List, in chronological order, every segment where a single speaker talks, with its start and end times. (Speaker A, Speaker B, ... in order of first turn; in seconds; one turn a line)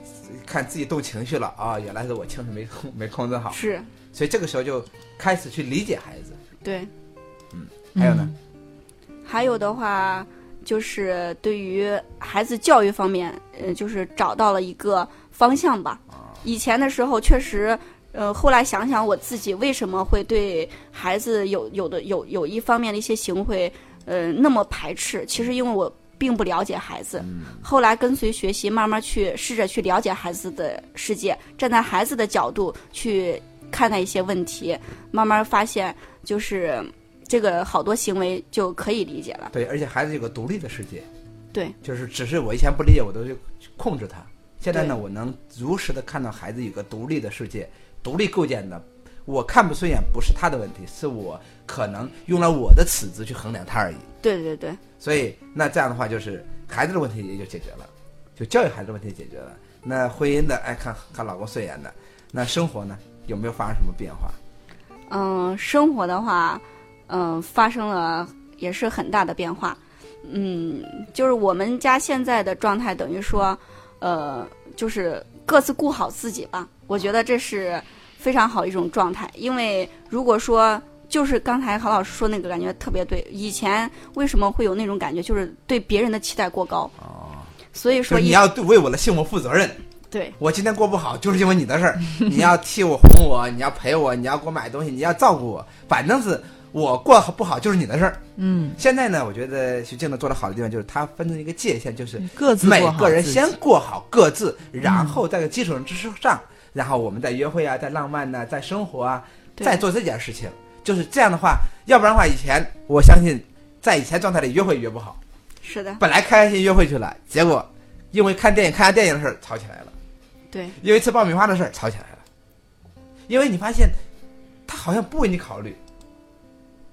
Speaker A: 0.2-3.6
Speaker B: 3.5-3.9
Speaker A: 4.1-6.4
Speaker B: 6.6-6.9
Speaker A: 7.5-8.3
Speaker C: 8.0-8.3
Speaker B: 9.2-39.5
Speaker A: 27.2-27.6
Speaker A: 39.5-41.1
Speaker A: 41.8-54.1
Speaker B: 44.7-45.0
Speaker B: 54.2-54.8
Speaker A: 55.0-64.4
Speaker B: 65.1-86.9
Speaker A: 87.0-87.5
Speaker B: 87.7-88.4
Speaker A: 88.0-89.8
Speaker B: 90.1-90.3
Speaker A: 90.4-98.2
Speaker C: 98.4-98.8
Speaker A: 98.8-115.2
Speaker C: 102.2-103.5
Speaker C: 104.8-105.2
Speaker B: 109.6-109.8
Speaker B: 115.6-116.0
Speaker A: 116.0-119.9
Speaker B: 120.5-120.8
Speaker A: 120.8-122.2
Speaker A: 123.3-124.0
Speaker A: 124.7-125.8